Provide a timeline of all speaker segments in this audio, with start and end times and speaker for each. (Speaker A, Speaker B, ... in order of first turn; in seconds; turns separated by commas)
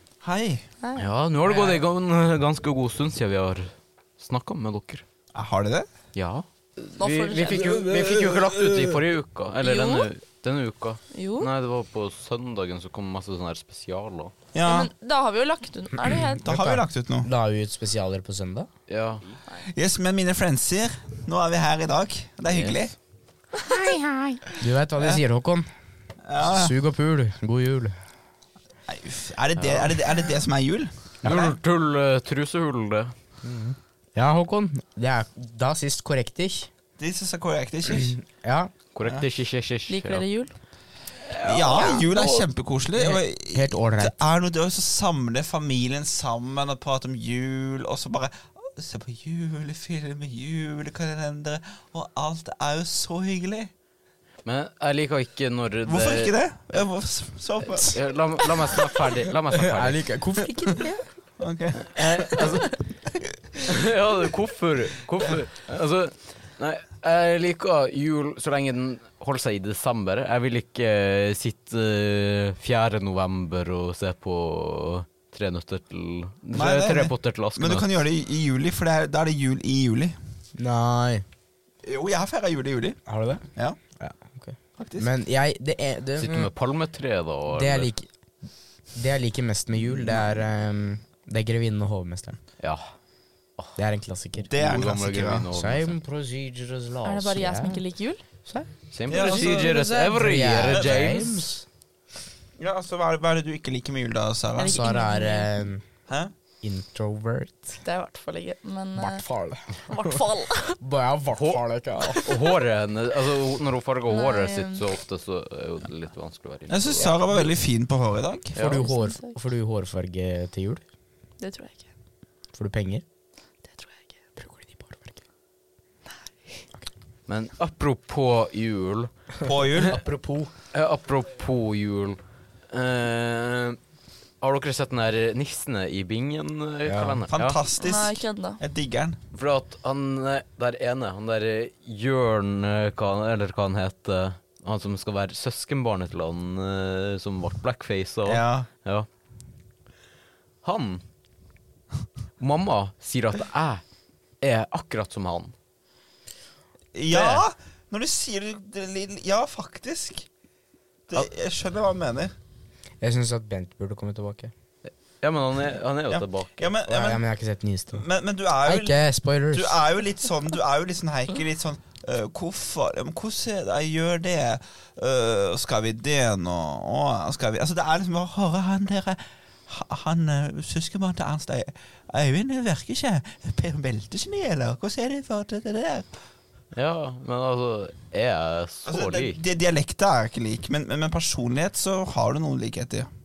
Speaker A: 0.2-0.7, Speaker B: 0.8-1.1, Speaker C: 1.0-5.0, Speaker D: 1.5-1.8, Speaker A: 5.3-5.9, Speaker C: 6.2-14.3, Speaker B: 7.0-7.7, Speaker A: 7.7-8.7, Speaker B: 9.6-10.1, Speaker B: 11.1-11.5, Speaker A: 14.5-14.9, Speaker B: 14.6-16.4, Speaker D: 16.1-18.7, Speaker A: 16.4-17.3, Speaker C: 18.9-19.4, Speaker A: 19.7-22.9, Speaker C: 22.5-22.8, Speaker D: 24.6-25.7, Speaker A: 26.3-26.7, Speaker D: 26.4-27.9, Speaker A: 28.9-31.5, Speaker C: 29.6-29.9, Speaker C: 31.2-33.1, Speaker D: 31.3-31.5, Speaker D: 34.1-36.7, Speaker A: 37.0-38.2, Speaker D: 37.9-38.7, Speaker C: 38.9-40.2, Speaker B: 39.9-40.5, Speaker C: 41.3-42.5, Speaker A: 41.4-53.7, Speaker B: 41.7-42.0, Speaker D: 43.0-44.1, Speaker C: 54.5-56.3, Speaker A: 55.9-58.0, Speaker C: 57.8-60.0, Speaker D: 59.5-60.9, Speaker A: 61.4-62.6, Speaker C: 61.9-62.8, Speaker A: 63.2-63.6, Speaker C: 63.7-77.9, Speaker A: 76.5-80.2, Speaker D: 80.6-81.2, Speaker A: 81.8-83.0, Speaker D: 83.1-83.4, Speaker D: 84.0-86.5, Speaker A: 84.8-85.1, Speaker C: 86.2-87.9, Speaker D: 87.5-88.1, Speaker D: 88.9-92.4, Speaker D: 93.8-94.9, Speaker A: 94.5-95.5, Speaker C: 94.6-96.0, Speaker D: 95.5-97.8, Speaker B: 97.0-98.2, Speaker D: 98.5-101.7, Speaker C: 98.9-101.5, Speaker A: 99.1-99.7, Speaker A: 100.7-101.0, Speaker A: 102.6-104.9, Speaker B: 104.6-105.5, Speaker D: 104.6-105.8, Speaker D: 106.6-107.8, Speaker B: 107.8-110.8, Speaker D: 109.0-110.2, Speaker D: 110.8-112.2, Speaker C: 112.2-117.3, Speaker B: 114.1-114.8, Speaker A: 116.7-118.5, Speaker C: 118.5-118.8, Speaker D: 118.5-120.8, Speaker B: 118.7-119.4, Speaker B: 121.4-121.9, Speaker D: 122.5-123.0, Speaker B: 123.7-124.1, Speaker D: 124.4-125.2, Speaker C: 127.3-129.1, Speaker A: 129.4-130.0, Speaker D: 129.8-130.5, Speaker C: 130.7-132.2, Speaker C: 132.7-133.8, Speaker C: 134.4-137.6, Speaker D: 136.9-137.2, Speaker A: 137.3-139.2, Speaker B: 137.8-138.6, Speaker C: 139.3-149.1, Speaker A: 148.2-148.7, Speaker C: 150.6-151.0, Speaker C: 152.4-153.8, Speaker C: 154.4-155.5, Speaker A: 156.9-160.3, Speaker C: 157.1-157.4, Speaker A: 161.1-162.3, Speaker D: 163.0-164.5, Speaker C: 164.9-166.7, Speaker A: 166.1-167.2, Speaker D: 166.8-168.1, Speaker A: 167.9-169.0, Speaker D: 168.6-169.8, Speaker A: 169.5-186.1, Speaker C: 186.7-189.4, Speaker A: 188.9-193.1